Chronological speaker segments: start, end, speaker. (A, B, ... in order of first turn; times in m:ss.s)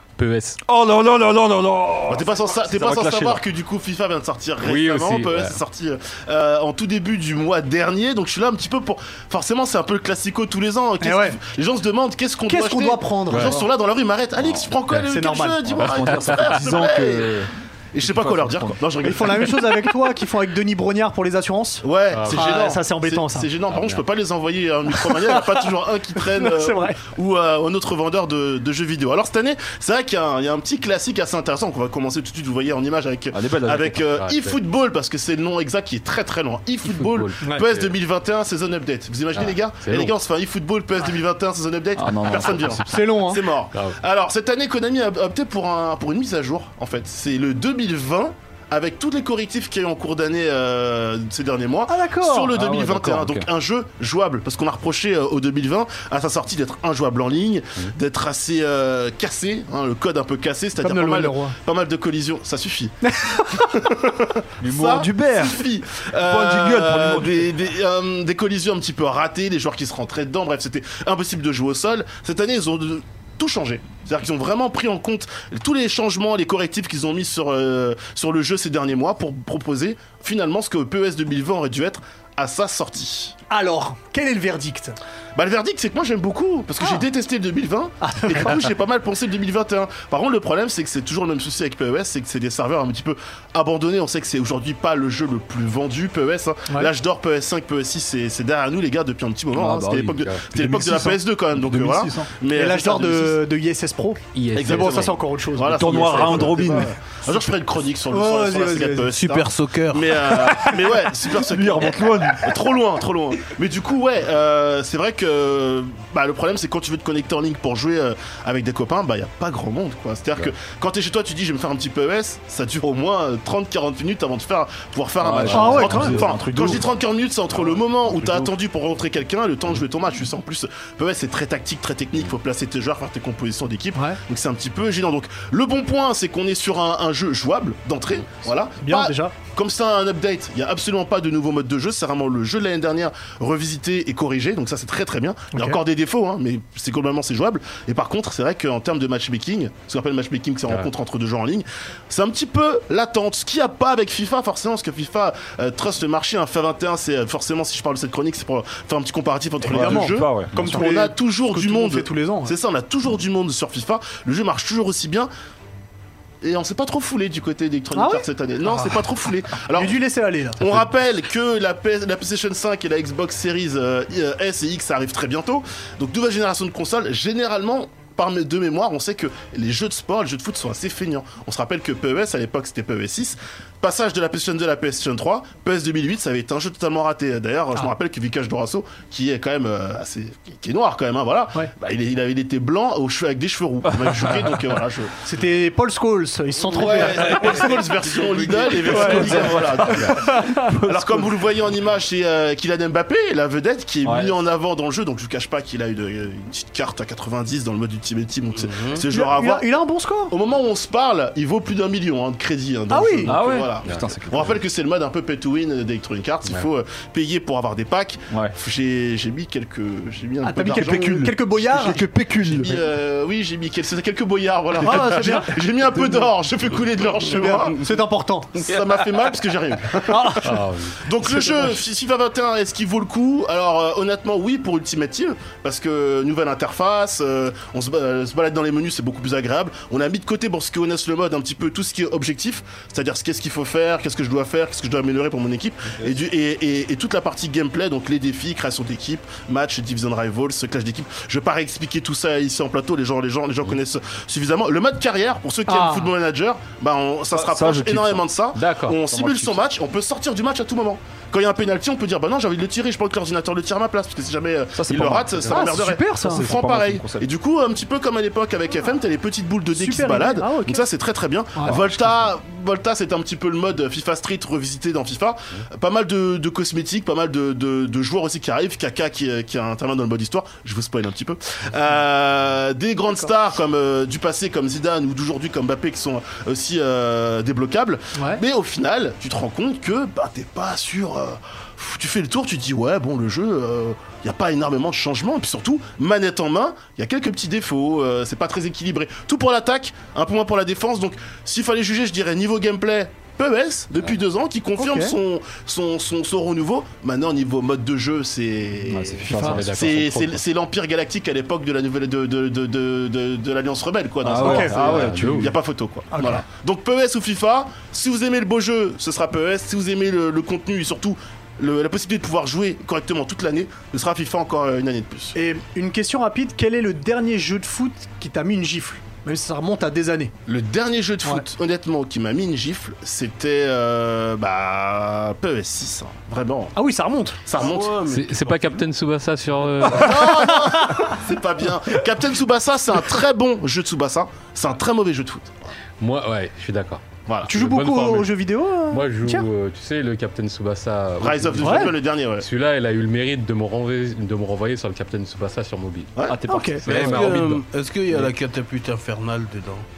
0:00.2-0:00.6 A
0:00.7-0:03.4 B
0:02.1-0:17.4 C
0:04.6-0:05.6 A
0:11.0-0:11.4 D
0:12.5-0:13.7 D
0:13.3-0:13.6 A
0:14.4-0:14.7 B
0:15.1-0:15.7 D
0:15.7-0:18.8 B
0:15.8-0:16.6 A
0:17.9-0:19.8 C
0:19.0-0:23.5 D
0:21.8-1:03.0 C
0:22.1-0:22.8 A
0:23.7-0:24.0 A
0:24.9-0:27.0 D
0:33.3-0:34.0 B
0:34.1-0:34.6 A
0:36.8-0:38.0 A
0:39.3-0:40.2 A
0:42.0-0:42.8 B
0:42.9-0:43.5 D
0:51.9-0:52.6 D
0:52.5-0:53.5 B
1:00.8-1:01.6 D
1:03.1-1:03.8 D
1:03.8-1:23.4 C
1:04.6-1:05.6 B
1:06.2-1:07.5 B
1:23.5-1:25.0 D
1:25.4-1:43.4 C
1:28.0-1:28.7 D
1:39.6-1:42.3 B
1:39.8-1:40.5 A
1:42.5-1:47.5 D
1:44.3-1:45.2 A
1:44.6-2:45.3 C
1:45.7-1:46.9 B
1:48.1-1:49.2 D
1:49.1-1:50.2 E
1:51.3-1:52.6 B
2:05.2-2:07.0 B
2:05.5-2:06.2 D
2:18.8-2:19.4 D
2:25.5-2:25.8 D
2:39.7-2:40.9 B
2:39.7-2:42.5 D
2:46.4-2:50.0 C
2:48.0-2:49.0 D
2:49.6-2:50.9 D
2:50.6-3:15.2 C
3:14.1-3:14.4 B
3:15.2-3:17.8 D
3:16.7-3:29.7 C
3:17.0-3:17.7 E
3:18.2-3:18.9 E
3:18.9-3:20.7 D
3:19.0-3:21.3 B
3:24.0-3:24.4 B
3:28.6-3:29.0 E
3:29.1-3:30.3 D
3:30.3-3:41.3 C
3:32.9-3:33.4 D
3:33.3-3:34.6 B
3:40.4-3:42.0 D
3:40.7-3:42.8 B
3:42.4-3:47.9 C
3:44.8-3:45.6 D
3:47.3-3:48.6 D
3:48.6-5:25.4 C
3:50.0-3:50.6 D
3:50.4-3:51.0 A
3:51.2-3:51.8 D
4:15.7-4:16.1 D
4:17.3-4:18.2 B
4:18.6-4:19.0 A
4:19.1-4:19.6 B
4:24.8-4:25.6 B
4:25.5-4:26.5 D
4:26.2-4:27.3 B
4:29.7-4:30.8 D
4:31.6-4:32.2 B
5:04.8-5:05.2 D
5:08.9-5:09.9 B
5:09.3-5:10.4 A
5:14.2-5:15.5 B
5:14.4-5:14.8 D
5:14.6-5:15.6 A
5:16.1-5:16.4 D
5:25.4-5:30.3 D
5:30.5-5:36.7 C
5:36.8-5:37.4 D
5:37.5-5:38.0 C
5:37.6-5:38.8 E
5:38.1-5:40.2 A
5:39.9-5:45.5 C
5:40.0-5:41.2 D
5:46.0-5:48.3 A
5:47.5-5:49.5 D
5:48.9-5:56.2 A
5:51.2-5:52.5 C
5:51.6-5:51.9 D
5:56.3-5:57.6 B
5:56.5-5:56.9 D
5:56.8-5:57.6 A
5:56.9-5:59.9 E